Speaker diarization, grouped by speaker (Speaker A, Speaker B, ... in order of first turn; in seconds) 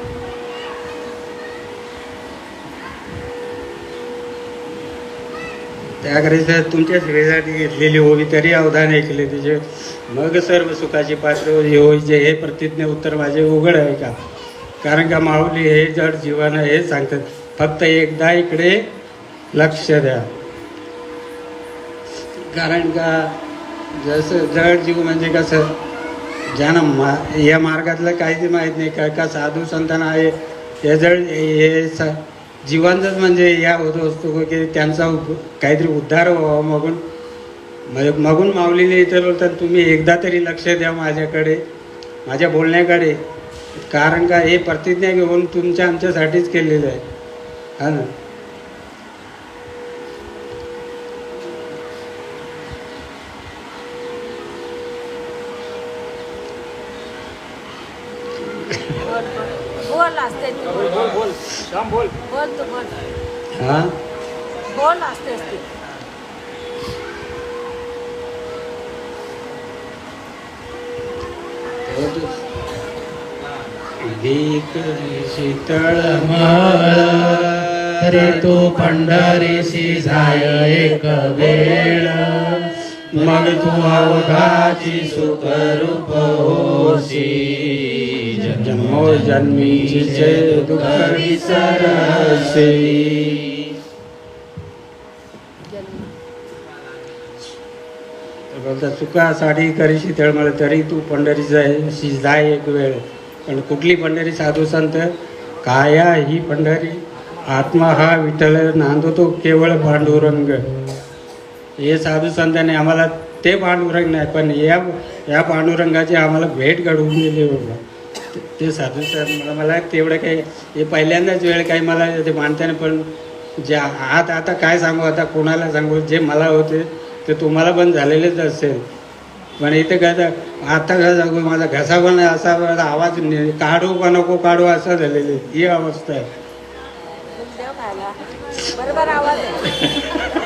Speaker A: 6.0-14.1, 14.8-18.8, 19.5-20.3, 22.5-23.4, 23.9-25.7, 26.5-37.0, 37.9-41.6, 42.2-43.2, 43.8-47.0, 47.8-48.1, 63.6-63.9, 71.8-72.4, 74.0-78.5, 83.1-85.0, 88.5-93.0, 98.5-105.1, 105.6-110.7, 111.8-117.8, 118.3-128.8, 129.6-136.3
Speaker B: 59.0-61.1, 62.2-62.9, 64.7-65.6, 137.4-138.2, 138.7-139.6
Speaker C: 76.3-82.6, 83.4-93.6